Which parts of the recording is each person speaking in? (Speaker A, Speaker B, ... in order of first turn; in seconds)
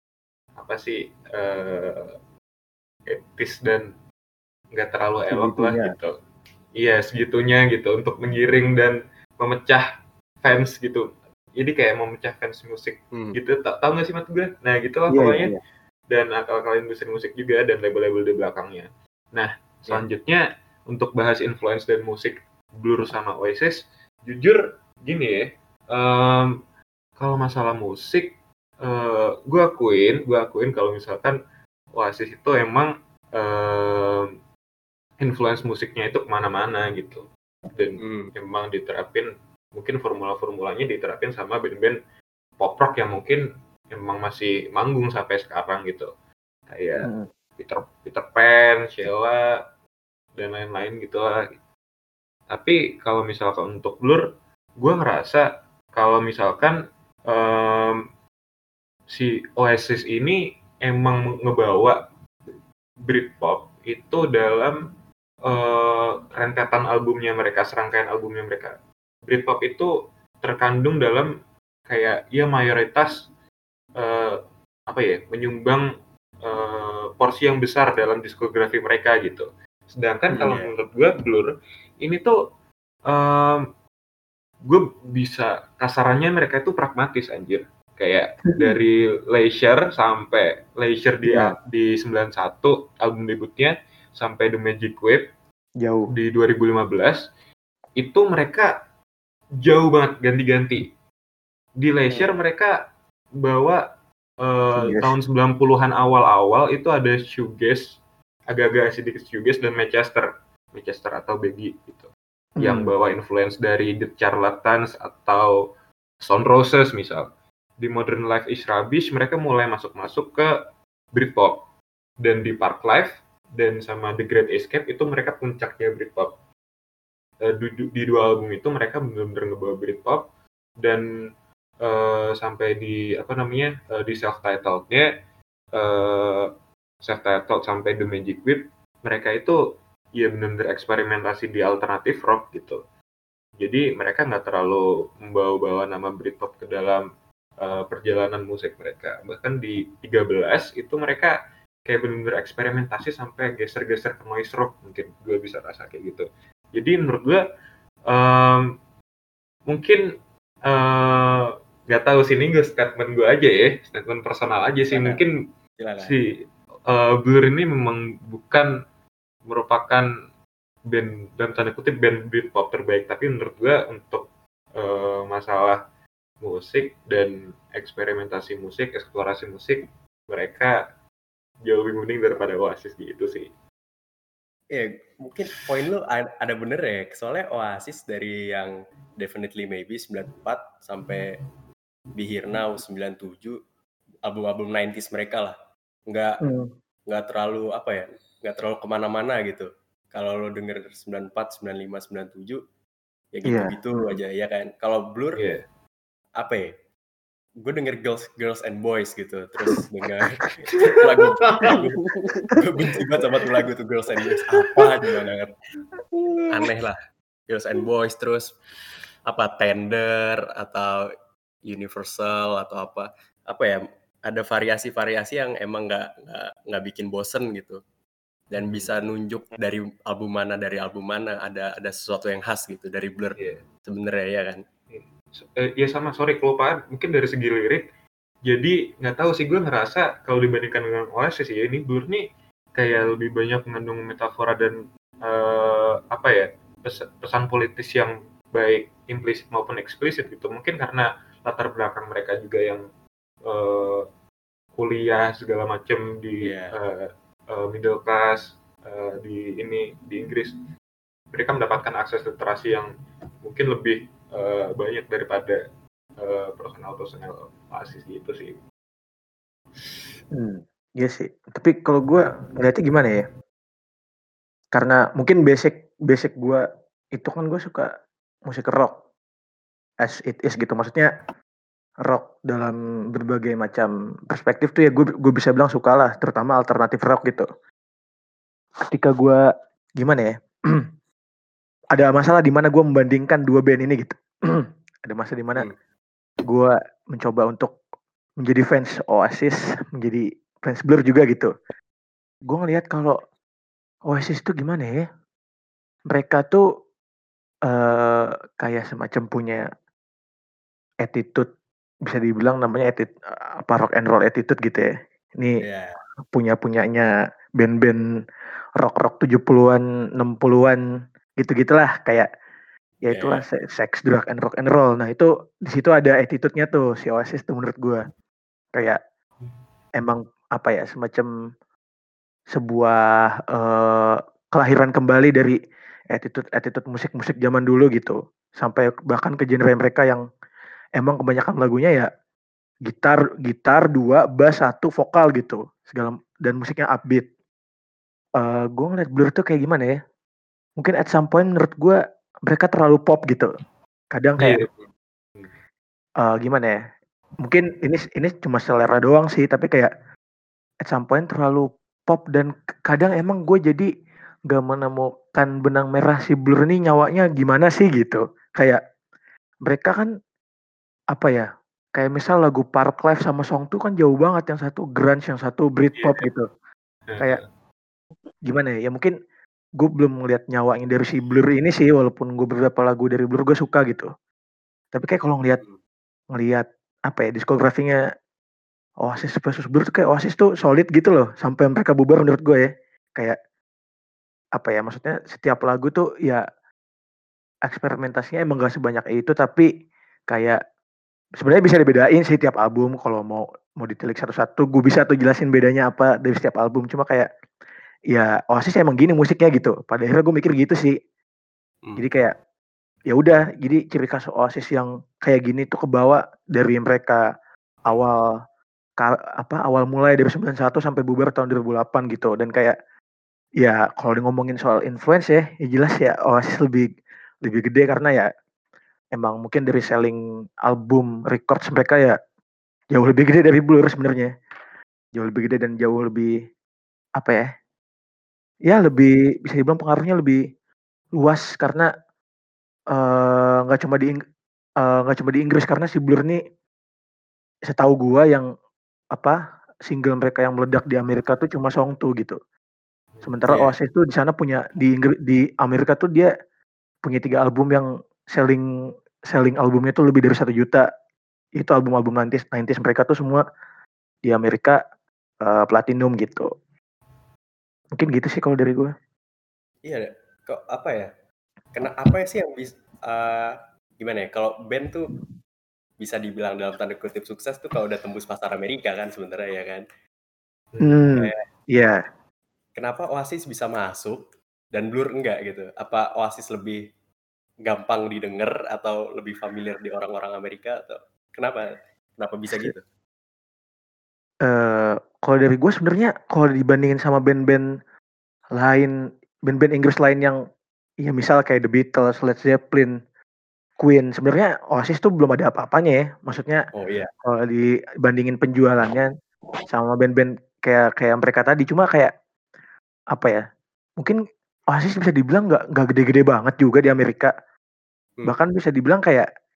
Speaker A: 0.6-2.1, 3.1-3.9, 4.7-6.1, 6.8-9.9, 10.4-15.5, 16.1-26.6, 27.2-31.4, 31.9-34.3, 35.2-42.0, 42.6-46.1, 46.7-49.6, 50.4-51.6, 52.5-54.3, 54.8-58.0, 59.1-62.0, 63.1-64.8, 65.5-68.8, 69.3-71.3, 71.9-73.2, 74.0-75.9, 76.4-82.3, 83.1-83.7, 84.7-95.3, 96.1-97.2, 98.0-98.7, 99.6-100.9, 101.8-102.8, 103.4-103.8, 104.4-108.0, 108.5-115.6, 116.2-120.5, 121.1-121.7, 122.2-126.3, 127.4-130.2, 130.8-131.1, 131.8-135.1, 135.8-136.5, 137.0-139.6, 140.2-142.8, 143.6-147.0, 147.6-157.4, 158.1-158.7, 159.7-160.1, 160.7-165.4, 166.0-168.7, 169.5-170.1, 170.9-175.8, 176.4-180.8, 181.7-183.5, 205.4-205.6, 211.5-211.8, 228.6-229.0, 234.9-237.9, 238.5-252.8, 253.5-254.1, 254.8-260.6, 261.3-262.9, 263.4-265.6, 266.2-268.6, 269.8-270.2, 354.4-354.7, 376.0-376.3, 377.1-377.5, 480.7-481.0
Speaker B: 5.3-6.0, 15.1-15.6, 47.0-47.3, 91.3-91.6, 95.8-96.1, 104.8-105.1, 112.6-112.9, 196.4-196.7, 203.4-203.8, 270.3-273.2, 274.7-277.9, 278.5-278.9, 280.0-281.1, 282.0-287.5, 288.9-289.4, 290.0-290.8, 291.9-295.7, 296.5-297.8, 298.4-301.5, 302.5-303.2, 304.1-305.0, 306.1-306.6, 307.7-309.6, 311.0-311.5, 312.1-315.6, 316.3-317.1, 317.6-318.0, 318.8-320.8, 321.4-322.3, 323.1-328.0, 330.0-331.3, 332.5-335.6, 336.1-340.2, 341.0-342.1, 342.9-347.3, 348.4-350.0, 350.8-353.5, 354.1-354.6, 356.2-356.8, 357.4-359.9, 360.8-363.9, 364.5-368.8, 369.7-370.1, 371.1-376.5, 378.5-379.1, 379.8-384.1, 384.9-385.6, 386.3-388.0, 389.0-393.4, 394.6-396.4, 397.7-399.7, 400.3-400.6, 401.4-407.3, 408.1-410.9, 412.0-412.3, 413.1-417.2, 417.9-418.3, 419.0-422.8, 423.6-426.9, 427.4-428.3, 429.1-432.2, 432.9-434.3, 435.1-436.3, 437.2-437.5, 438.7-440.4, 441.2-441.9, 442.9-444.2, 444.8-446.4, 447.7-448.5, 449.1-452.4, 453.2-456.3, 457.0-458.6, 459.3-460.8, 461.6-463.4, 464.3-464.8, 465.4-466.5, 467.9-468.9, 480.8-482.0, 494.4-497.6, 498.6-498.9, 499.5-500.4, 501.0-502.9, 503.8-506.6, 507.2-509.1, 509.7-512.1, 513.1-513.4, 514.7-517.3, 518.2-519.3
Speaker C: 38.0-38.3, 80.3-80.7, 164.8-165.2, 165.8-166.2, 184.7-191.4, 192.2-193.6, 194.2-195.6, 196.1-196.4, 197.1-202.6, 203.3-205.4, 206.4-206.7, 207.6-212.0, 212.6-215.5, 216.5-217.0, 217.5-218.6, 219.3-221.1, 221.7-227.8, 228.5-234.6, 256.4-256.8, 315.6-316.0, 323.1-323.4, 453.5-453.7, 469.9-471.1, 471.7-475.1, 476.0-479.8, 482.8-484.2, 484.7-486.8, 487.7-492.8, 506.7-507.1